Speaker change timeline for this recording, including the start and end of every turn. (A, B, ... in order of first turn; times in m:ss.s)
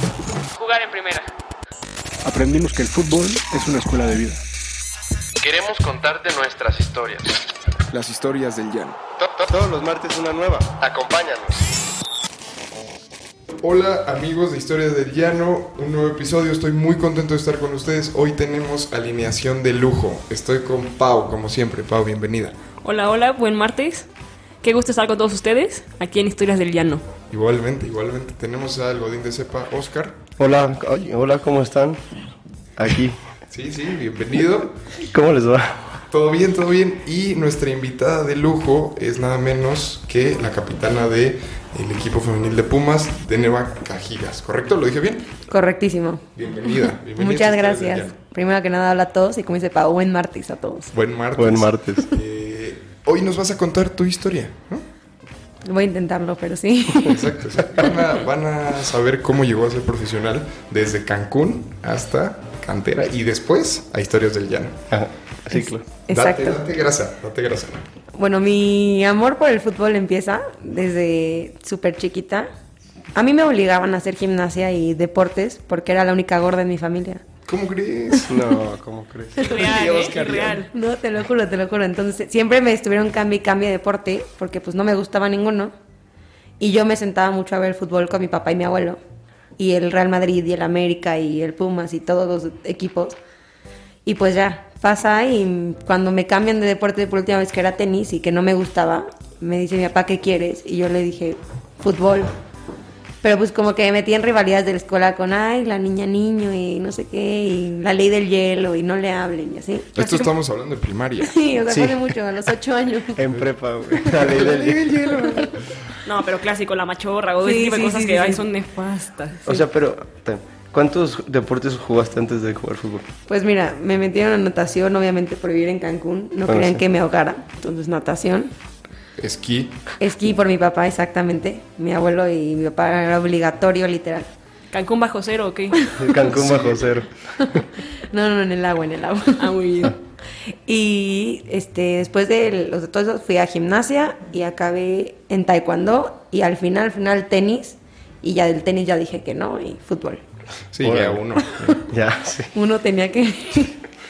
0:00.6-0:01.2 A
0:02.2-0:04.4 B
0:05.4-0:07.4 C
0:07.9-0:09.0 D
0:09.4-0:11.6 E
0:13.6-0:22.6 D
0:22.8-0:24.1 A
0:24.6-0:27.0 A
0:27.3-0:30.2 D
0:30.4-0:32.0 E
0:32.8-0:33.2 E
0:33.5-0:34.8 D
0:34.9-0:36.0 E
0:36.1-0:45.3 D
0:45.5-0:50.9 F
0:46.4-0:48.2 D
0:50.9-0:54.8 D
0:51.4-0:52.1 E
0:55.6-0:57.2 F
0:57.1-1:04.8 D
1:04.9-1:05.8 E
1:05.5-1:06.6 F
1:06.1-1:07.8 D
1:08.1-1:12.5 F
1:13.1-1:17.2 F
1:17.4-1:18.4 D
1:18.3-1:19.7 E
1:19.4-1:20.6 D
1:19.4-1:20.7 A
1:19.4-1:25.7 F
1:26.6-1:29.0 F
1:29.6-1:33.2 F
1:34.0-1:42.3 F
1:43.2-1:50.3 F
1:50.0-1:51.3 D
1:51.2-1:53.3 F
1:51.7-1:52.0 E
1:53.2-1:55.2 E
1:53.3-1:55.5 D
1:53.9-1:54.4 F
1:55.2-1:55.5 F
1:56.0-1:59.4 A
1:57.4-1:58.4 F
1:59.4-2:03.1 E
2:03.3-2:08.5 F
2:06.5-2:06.8 E
2:09.2-2:09.8 D
2:10.0-2:14.3 F
2:14.7-2:15.8 A
2:15.9-2:17.1 E
2:16.1-2:17.0 D
2:17.4-2:19.5 F
2:19.4-2:20.0 A
2:20.5-2:30.2 F
2:30.7-2:31.8 D
2:30.8-2:31.3 E
2:31.8-2:32.5 E
2:32.5-2:33.8 F